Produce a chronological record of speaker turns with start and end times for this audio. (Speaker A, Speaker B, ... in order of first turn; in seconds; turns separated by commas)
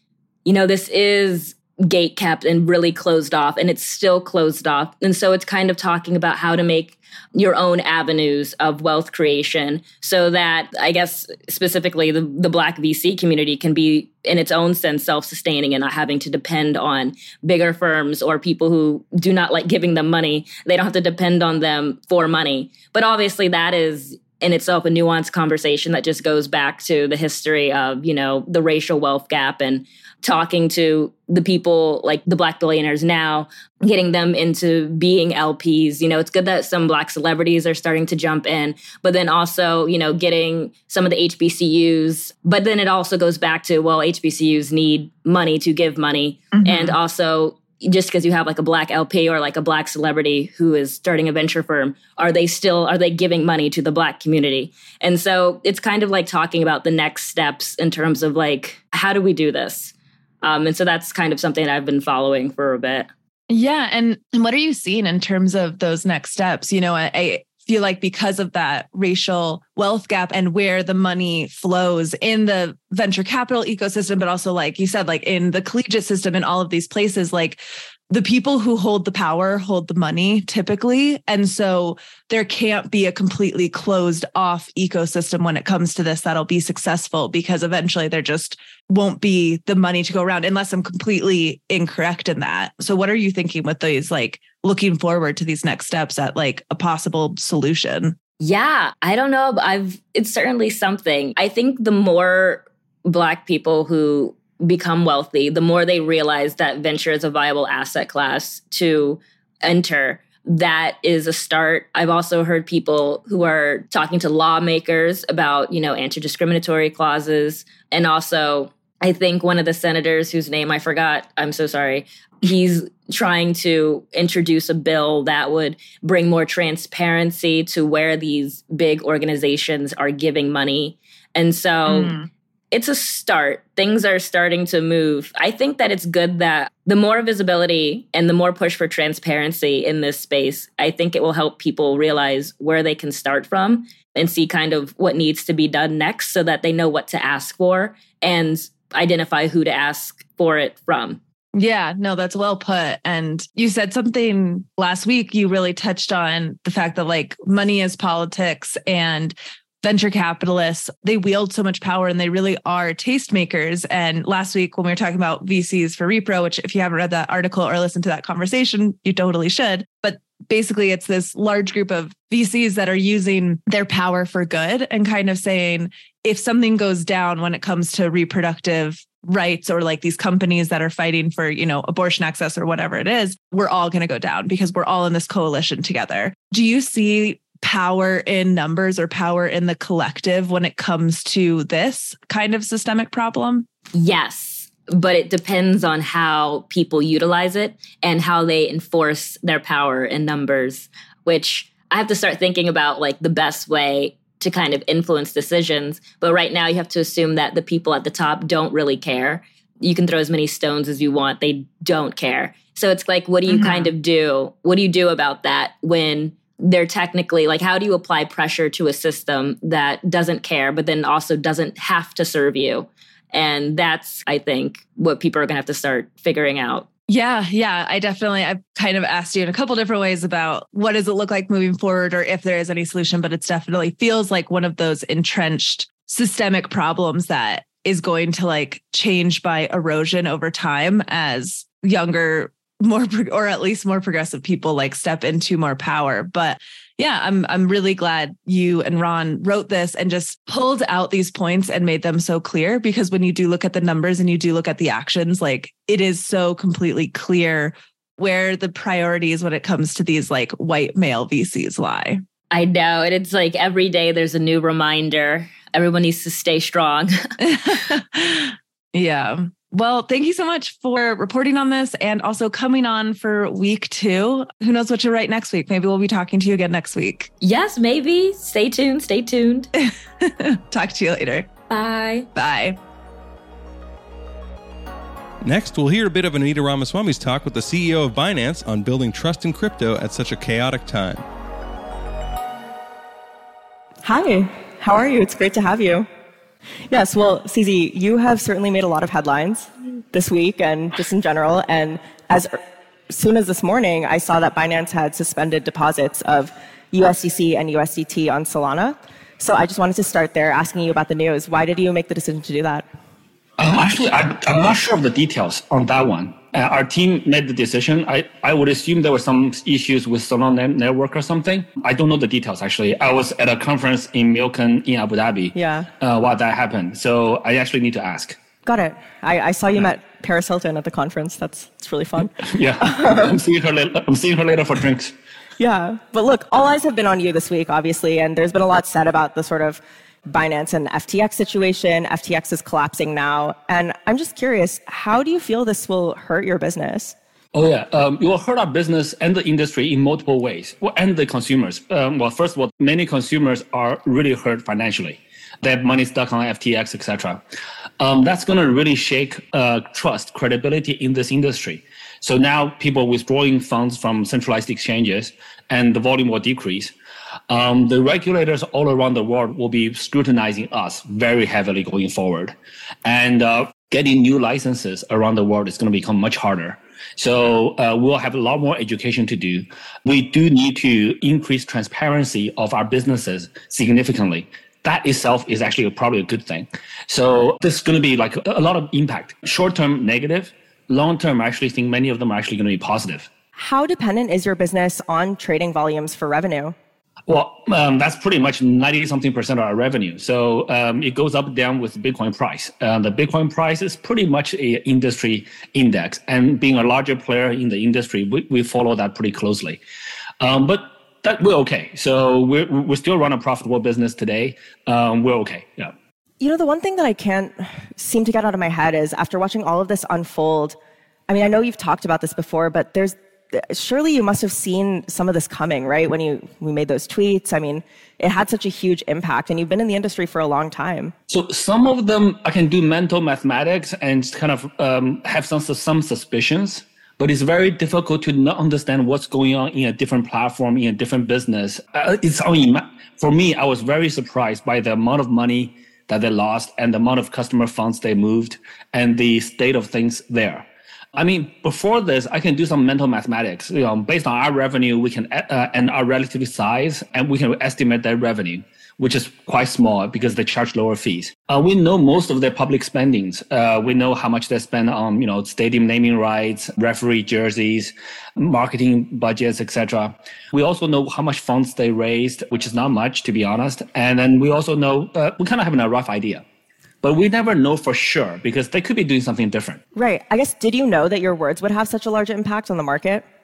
Speaker A: 0.4-63.1, Speaker B: 46.5-47.0, Speaker B: 63.5-98.1, Speaker A: 98.4-132.2, Speaker B: 131.9-132.3, Speaker A: 132.7-151.2, Speaker B: 151.5-193.7, Speaker A: 193.9-226.9, Speaker B: 213.5-213.9, Speaker B: 227.1-262.2, Speaker A: 262.5-267.3, Speaker B: 267.4-277.3, Speaker A: 277.4-279.7, Speaker B: 279.8-281.5, Speaker A: 281.7-282.3, Speaker B: 282.3-282.8, Speaker C: 285.4-291.2, Speaker D: 294.0-296.1, Speaker D: 296.9-302.6, Speaker D: 303.1-312.8, Speaker E: 313.6-328.4, Speaker D: 325.5-325.9, Speaker D: 328.6-333.4, Speaker E: 332.4-335.1, Speaker D: 335.6-347.1, Speaker E: 347.5-357.4, Speaker E: 358.0-366.9, Speaker E: 367.5-393.3, Speaker D: 393.6-396.7, Speaker E: 397.3-409.8, Speaker E: 410.4-415.9, Speaker D: 416.4-420.8, Speaker D: 421.3-431.1, Speaker E: 431.3-476.4, Speaker E: 477.0-479.8, Speaker D: 479.9-483.2